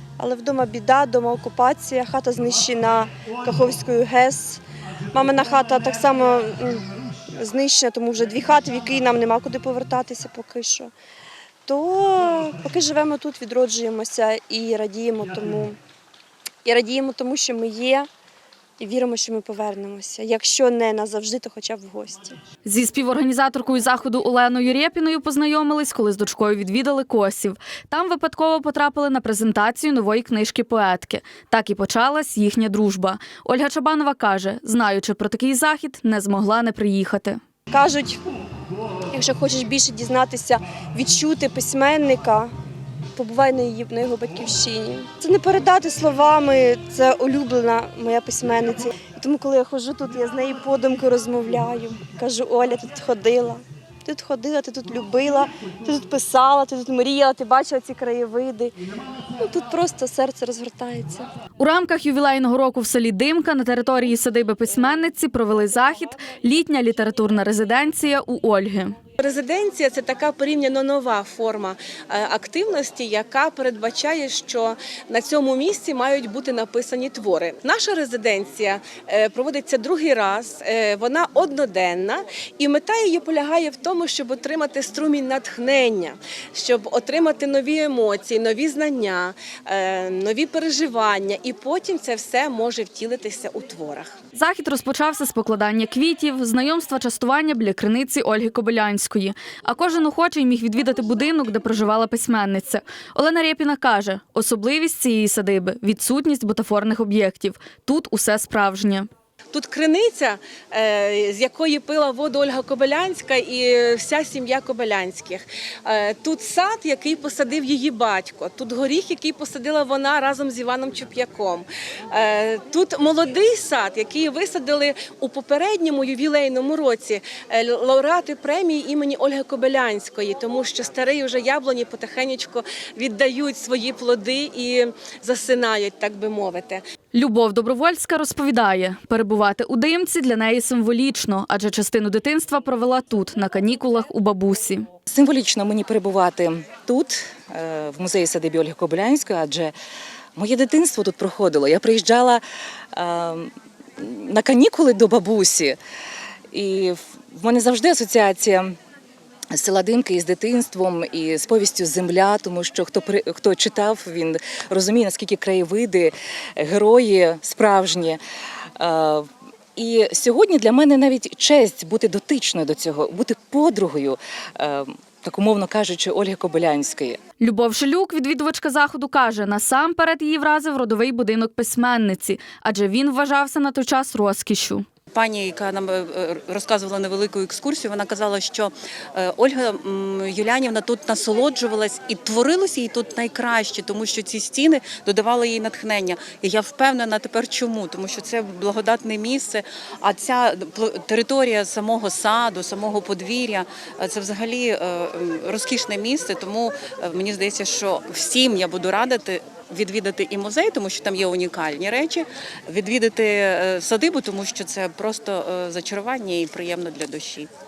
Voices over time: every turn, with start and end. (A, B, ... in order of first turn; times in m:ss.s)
0:00.2-0:04.6 A
0:05.1-0:10.9 A
0:11.7-0:15.8 A
0:16.6-0:18.1 A
0:18.8-0:22.4 A
0:22.6-0:37.4 B
0:37.7-0:38.2 A
0:39.1-0:42.5 A
0:43.2-0:58.7 A
0:59.4-1:01.3 A
1:01.6-1:09.0 B
1:09.2-1:34.2 C
1:34.4-1:49.1 B
1:49.5-2:16.8 C
2:17.1-2:24.9 B
2:25.1-2:29.7 D
2:30.4-2:32.4 D
2:32.9-2:35.8 D
2:36.5-2:38.8 D
2:39.5-2:48.2 D
2:48.8-2:57.2 D
2:57.4-3:04.9 B
3:05.1-3:37.5 E